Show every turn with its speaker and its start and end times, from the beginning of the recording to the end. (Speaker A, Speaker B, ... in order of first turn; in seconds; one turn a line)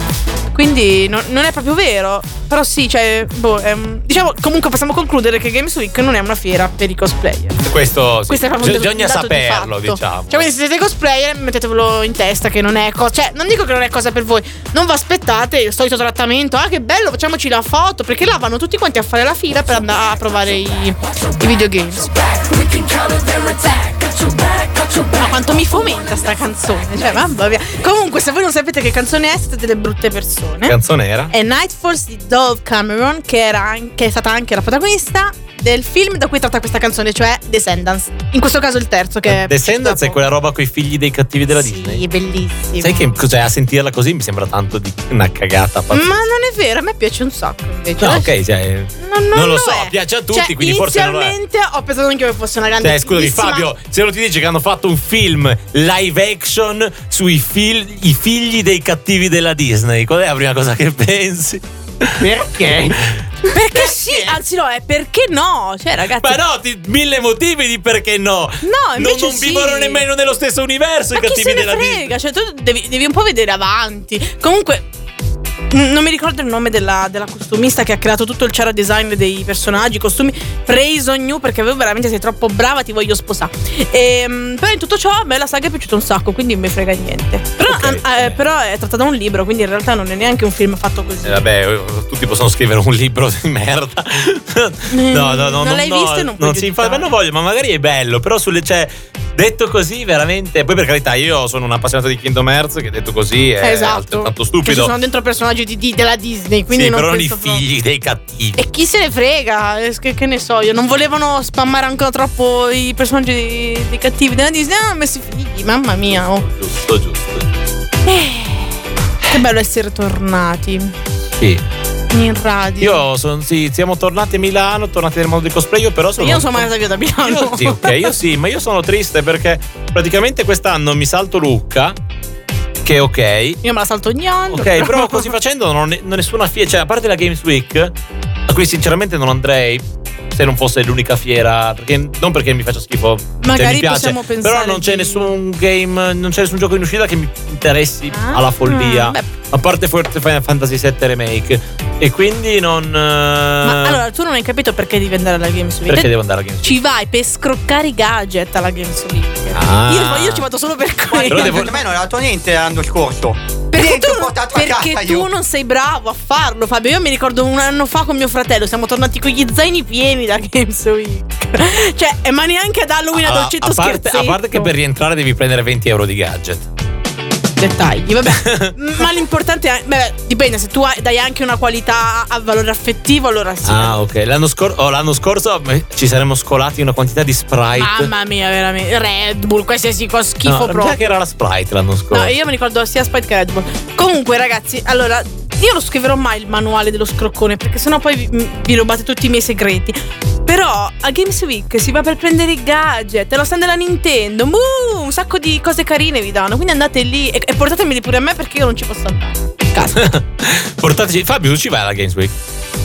Speaker A: 0.5-7.6
Speaker B: 7.6-10.5
Speaker A: 8.3-22.2
Speaker A: 22.7-24.1
Speaker A: 25.0-30.8
Speaker B: 30.6-31.3
Speaker A: 31.3-40.2
Speaker B: 39.2-42.0
Speaker A: 41.5-43.1
Speaker B: 42.8-46.1
Speaker A: 45.9-48.3
Speaker B: 48.0-51.4
Speaker A: 49.0-53.7
Speaker B: 52.8-63.2
Speaker C: 62.2-63.0
Speaker A: 63.4-66.4
Speaker B: 66.2-72.1
Speaker A: 68.6-70.0
Speaker A: 71.1-74.8
Speaker A: 75.7-91.4
Speaker B: 87.7-88.4
Speaker B: 91.2-104.9
Speaker A: 94.9-97.1
Speaker A: 103.6-107.6
Speaker B: 106.7-108.6
Speaker A: 108.6-116.5
Speaker B: 116.3-117.5
Speaker A: 118.0-120.9
Speaker B: 121.3-121.6
Speaker A: 122.1-123.0
Speaker B: 122.8-126.7
Speaker A: 126.2-128.1
Speaker B: 127.2-131.9
Speaker B: 132.8-133.6
Speaker A: 133.6-135.3
Speaker B: 134.5-137.9
Speaker B: 138.5-154.0
Speaker A: 143.4-145.3
Speaker A: 148.1-149.3
Speaker A: 153.6-156.1
Speaker B: 155.9-156.8
Speaker A: 156.6-161.8
Speaker B: 159.5-160.4
Speaker C: 161.1-165.3
Speaker B: 161.2-161.8
Speaker A: 163.7-174.7
Speaker B: 173.1-176.7
Speaker A: 177.6-184.0
Speaker B: 178.3-178.7
Speaker B: 183.6-188.1
Speaker A: 187.8-191.1
Speaker B: 190.4-192.3
Speaker A: 192.1-210.0
Speaker B: 209.9-212.3